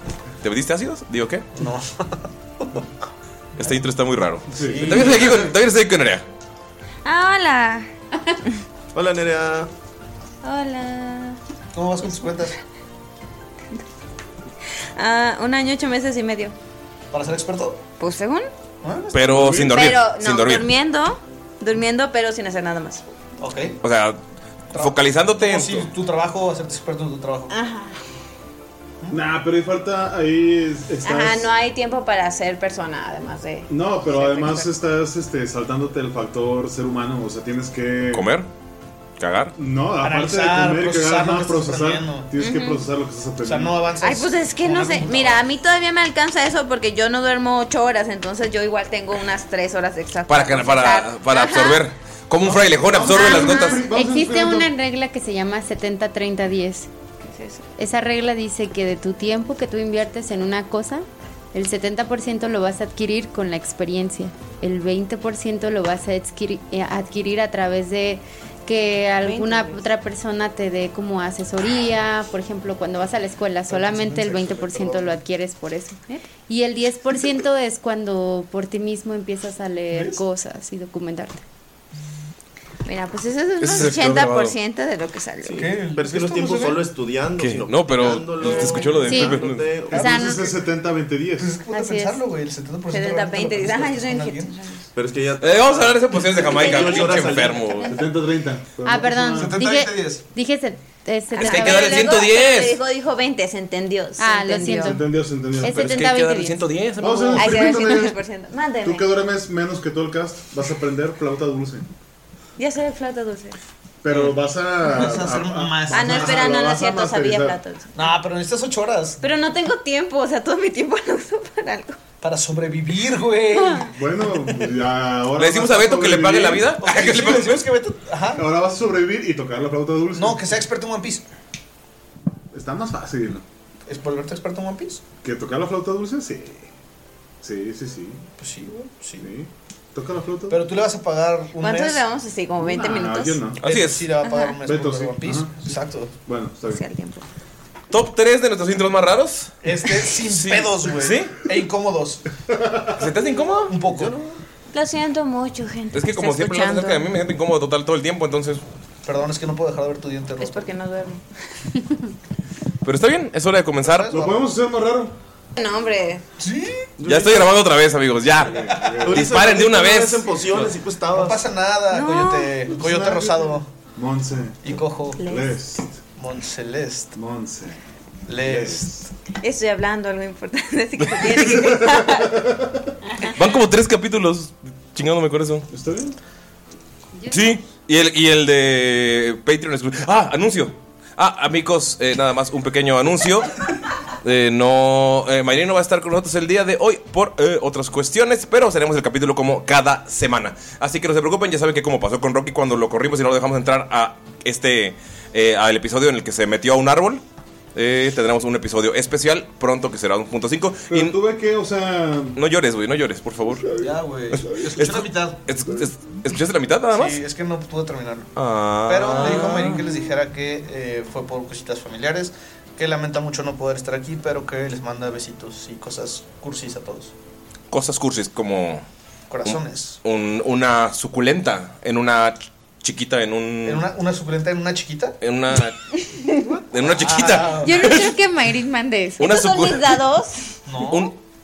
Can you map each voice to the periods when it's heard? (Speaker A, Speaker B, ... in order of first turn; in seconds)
Speaker A: 0.4-1.4, 3.6-6.2, 19.1-20.7, 23.8-24.2, 24.7-25.9, 38.1-38.5, 39.2-39.5, 50.2-53.9, 83.6-84.6, 87.4-89.7, 95.4-97.9, 101.4-102.8, 105.7-107.8, 125.4-127.6, 143.6-144.1, 147.9-151.3, 153.0-153.7, 155.9-158.6, 162.8-164.1, 167.0-170.7, 181.0-181.8, 183.2-185.7, 187.3-193.5, 194.2-207.2, 207.8-211.2, 212.3-213.6, 214.8-217.2, 218.3-219.9, 227.7-228.8, 229.4-233.8, 235.2-235.8, 236.7-238.1, 239.2-240.1, 240.9-241.1
Speaker B: 1.6-2.9, 4.6-5.5, 11.7-12.5, 17.1-17.8, 18.8-19.9, 23.4-23.8, 24.7-27.5, 40.0-42.3, 43.4-45.4, 73.7-75.2, 79.9-80.2, 85.6-86.9, 89.9-90.6, 91.4-94.5, 99.4-100.2, 114.9-116.5, 117.9-119.2, 122.2-124.7, 126.8-128.4, 130.1-131.2, 133.9-135.0, 138.4-139.3, 140.5-142.1, 143.6-146.1, 149.6-152.2, 153.4-154.1, 159.0-160.8, 163.8-164.5, 166.4-166.9, 171.1-173.7, 174.6-175.2, 176.2-177.1, 178.3-178.9, 213.8-215.4, 216.9-218.3, 218.8-227.1, 229.3-229.9, 233.6-235.2, 236.8-237.9, 240.7-241.1
Speaker C: 4.5-5.4, 29.1-31.5, 33.7-38.3, 39.5-43.8, 52.5-54.7, 90.0-91.6, 97.8-99.6, 104.6-106.1, 107.0-108.2, 108.8-111.8, 114.0-117.6, 123.9-126.7, 128.3-130.6, 132.5-133.4, 135.2-136.7, 137.4-138.2, 139.2-140.6, 142.6-143.6, 144.6-146.8, 152.5-153.0, 164.1-165.2, 168.4-169.4, 172.7-176.0, 177.1-177.8, 178.4-179.1, 181.6-182.8, 185.7-186.2, 210.9-212.4
Speaker D: 7.0-7.9, 10.4-11.4, 14.9-16.6, 18.0-18.5, 19.7-23.0, 27.5-28.0, 31.0-34.8, 42.4-42.9, 44.0-51.9, 53.0-53.8, 57.2-57.6, 69.2-69.9, 82.8-85.7, 88.5-89.0, 92.9-94.8, 96.5-98.2, 101.3-105.0, 107.3-109.2, 112.6-113.5, 115.9-118.0, 119.2-122.0, 141.6-143.4, 144.2-144.6, 146.7-147.2, 154.7-157.2, 160.4-161.3, 165.6-166.2, 171.9-172.6, 175.2-175.6, 179.4-182.5, 239.2-240.6
Speaker E: 8.9-9.7, 85.4-90.2, 94.9-97.7, 153.9-154.3, 167.0-167.6, 169.0-171.4
Speaker F: 53.9-56.9, 57.8-81.4, 89.0-89.3, 89.9-90.4, 91.7-92.2, 98.8-102.0, 104.2-105.0, 105.6-106.6, 187.2-187.6, 237.6-239.3